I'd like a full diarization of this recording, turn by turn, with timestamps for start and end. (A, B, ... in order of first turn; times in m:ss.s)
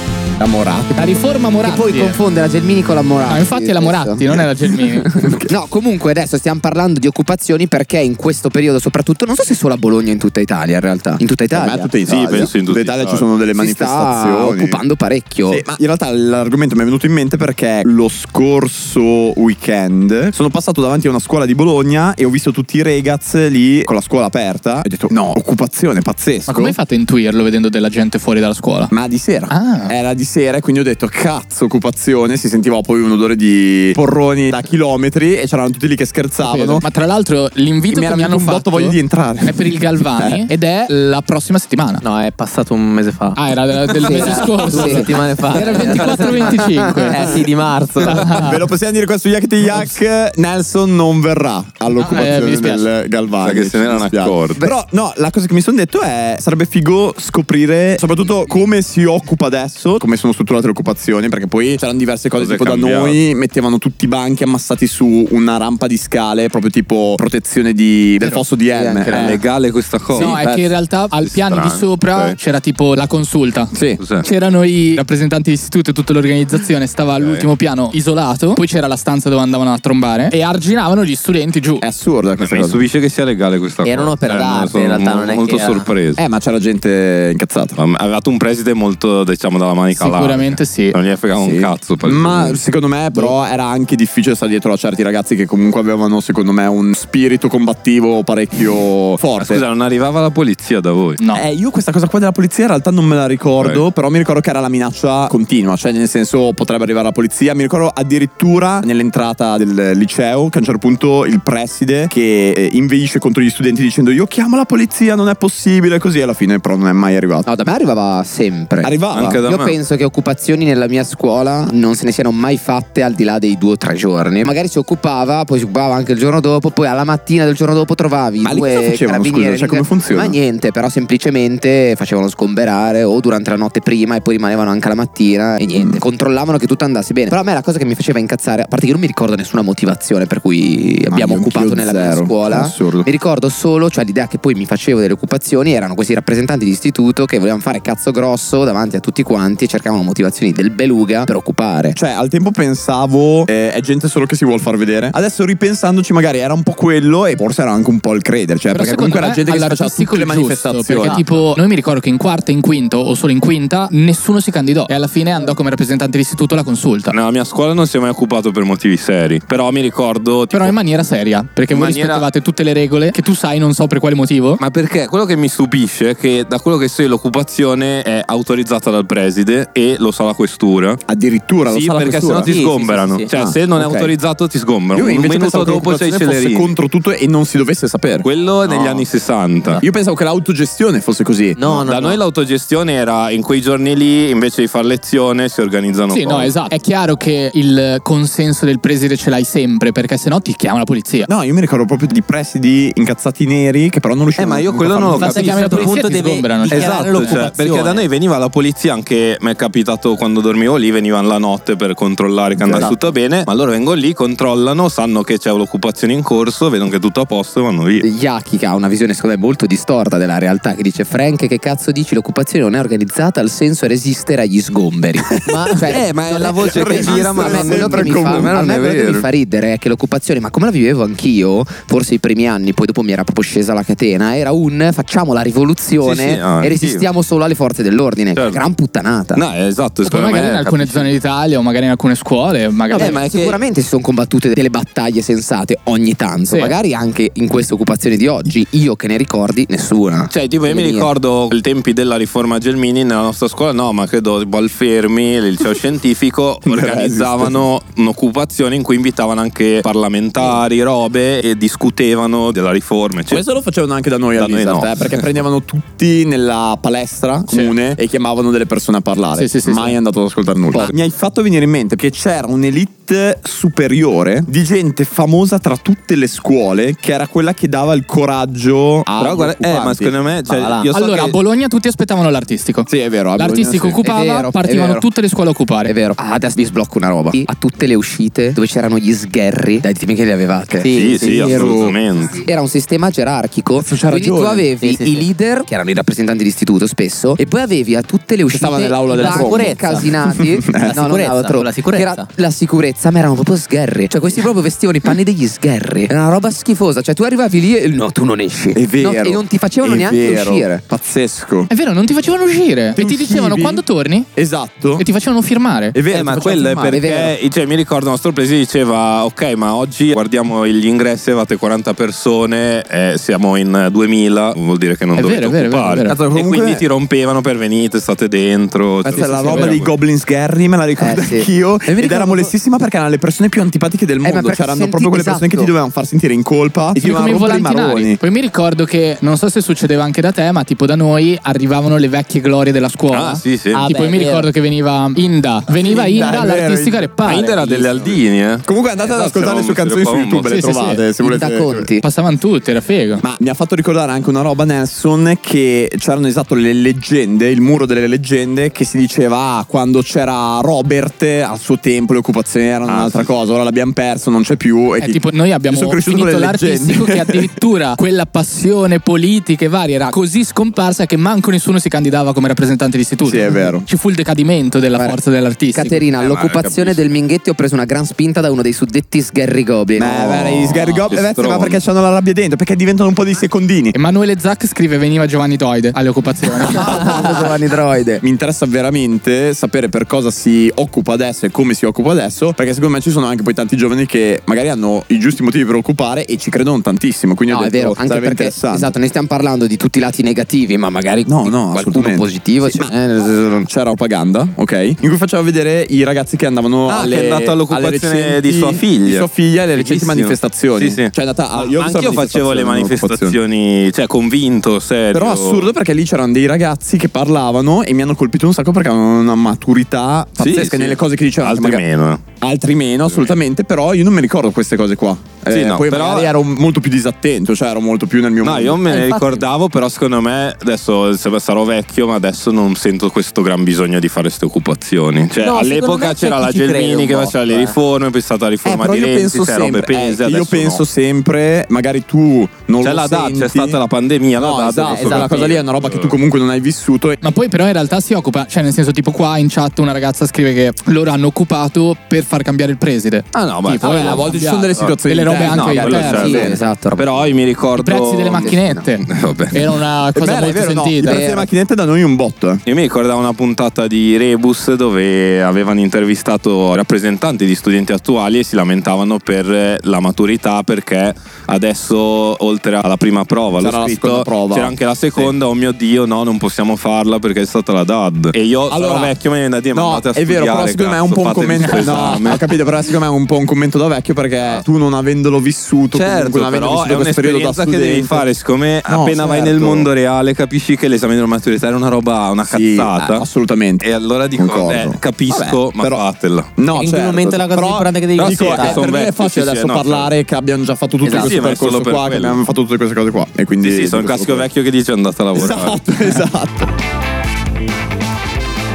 0:00.4-0:01.2 A
0:00.9-0:02.2 B
0:01.6-0:04.4 C
0:03.3-0:05.1 B
0:05.0-0:05.5 A
0:05.2-0:11.9 C
0:11.5-0:14.8 A
0:12.1-0:13.3 D
0:13.6-0:15.6 C
0:15.5-0:26.8 A
0:26.5-0:28.9 B
0:28.9-0:36.8 A
0:29.5-0:29.9 B
0:36.4-0:42.0 B
0:37.9-0:40.5 A
0:42.0-0:48.4 E
0:43.3-0:47.4 B
0:44.0-0:45.7 C
0:48.0-0:48.6 B
0:48.3-1:09.4 A
0:52.0-0:52.9 B
0:53.4-0:54.6 D
1:02.4-1:03.2 D
1:08.7-1:09.4 C
1:09.1-1:10.4 D
1:10.1-1:10.7 A
1:10.2-1:21.8 B
1:11.2-1:12.4 D
1:13.7-1:14.0 A
1:14.0-1:14.2 D
1:17.2-1:17.4 D
1:21.8-1:22.8 A
1:22.4-1:26.2 D
1:23.8-1:25.9 E
1:26.2-1:27.8 A
1:27.8-1:32.6 D
1:30.0-1:31.0 B
1:31.4-1:39.6 A
1:39.4-1:41.2 D
1:41.3-1:57.4 A
1:57.4-1:58.9 C
1:58.8-1:59.4 A
1:59.1-1:59.8 D
1:59.4-2:32.0 C
2:08.4-2:10.4 A
2:15.7-2:16.0 A
2:21.1-2:23.1 A
2:31.9-2:41.2 A
2:38.7-2:47.1 B
2:47.1-2:50.7 D
2:50.5-2:54.6 B
2:51.7-2:52.2 D
2:54.6-3:01.0 D
3:01.1-3:02.5 A
3:01.7-3:06.7 D
3:02.4-3:03.4 E
3:03.3-3:04.1 A
3:04.9-3:08.2 A
3:08.2-3:09.8 D
3:08.6-3:09.0 E
3:09.8-3:11.8 A
3:11.6-3:12.2 E
3:11.8-3:16.5 D
3:16.1-3:21.3 B
3:21.3-3:25.4 A
3:24.4-3:26.0 D
3:25.2-3:28.1 E
3:25.2-3:27.5 B
3:26.7-3:38.0 D
3:32.6-3:32.9 A
3:32.7-3:33.0 E
3:38.0-3:59.4 C
3:45.5-3:45.8 E
3:45.5-3:48.5 A
3:46.0-3:49.2 D
3:56.0-3:57.0 D
3:58.3-3:58.6 D
3:59.3-4:01.1 D
4:00.0-4:03.2 B
4:02.9-4:11.1 C
4:02.9-4:03.6 D
4:06.5-4:06.7 B
4:10.3-4:23.4 D
4:16.6-4:17.6 A
4:23.3-4:40.1 A
4:24.4-4:25.2 D
4:27.5-4:27.7 B
4:29.3-4:30.0 B
4:39.2-4:41.4 D
4:40.4-4:40.9 E
4:40.9-4:45.9 B
4:42.9-4:44.0 A
4:44.0-4:45.0 C
4:45.8-4:50.9 C
4:50.8-4:51.8 E
4:50.9-4:52.4 D
4:51.5-4:51.9 A
4:52.3-5:10.8 C
4:53.8-4:54.7 A
4:54.8-4:55.3 E
4:58.5-5:01.0 A
4:59.1-5:00.1 E
5:00.7-5:02.3 E
5:08.7-5:11.7 A
5:11.7-5:14.3 B
5:13.0-5:13.8 A
5:14.3-5:15.0 A
5:15.0-5:16.0 B
5:15.9-5:17.0 A
5:16.1-5:29.9 D
5:16.9-5:17.3 C
5:25.2-5:26.2 B
5:26.0-5:26.8 A
5:29.0-5:38.2 A
5:29.1-5:29.8 B
5:31.0-5:32.5 C
5:34.2-5:35.7 C
5:37.0-5:48.0 B
5:43.1-5:43.8 D
5:43.7-5:44.5 E
5:45.7-5:47.0 A
5:47.2-5:50.6 D
5:48.6-5:51.9 A
5:50.5-5:51.0 B
5:51.2-5:52.0 C
5:52.0-5:53.2 B
5:53.2-6:07.5 A
6:02.8-6:03.2 D
6:05.0-6:16.0 B
6:13.2-6:13.8 A
6:15.7-6:20.2 C
6:16.2-6:17.0 D
6:20.0-6:23.9 A
6:20.1-6:21.8 D
6:23.9-6:27.0 B
6:26.7-6:28.2 C
6:26.9-6:27.3 A
6:28.2-6:38.9 A
6:37.5-6:43.7 C
6:41.2-6:42.9 A
6:43.6-6:53.4 A
6:46.9-6:55.7 D
6:55.1-7:01.8 A
7:00.4-7:02.2 D
7:02.4-7:08.9 A
7:03.1-7:03.3 D
7:05.5-7:06.3 D
7:08.4-7:20.8 D
7:08.9-7:09.4 E
7:15.3-7:17.8 E
7:18.6-7:23.8 A
7:22.8-7:26.2 D
7:24.4-7:27.2 A
7:24.9-7:25.3 E
7:27.2-7:36.3 B
7:33.3-7:38.5 D
7:33.8-7:36.6 A
7:36.1-7:37.3 C
7:37.8-7:41.2 B
7:38.4-7:38.8 C
7:39.0-7:39.6 D
7:40.1-7:42.6 A
7:41.0-7:41.5 C
7:42.6-8:02.5 D
7:53.6-7:55.3 A
7:58.7-7:59.1 A
7:59.7-8:08.2 A
8:05.9-8:13.2 D
8:08.8-8:09.9 A
8:12.5-8:16.0 A
8:13.8-8:16.5 D
8:16.6-8:24.5 A
8:16.7-8:18.8 E
8:18.1-8:20.1 D
8:21.0-8:21.3 E
8:21.0-8:22.4 D
8:23.6-8:25.8 D
8:25.3-8:26.7 A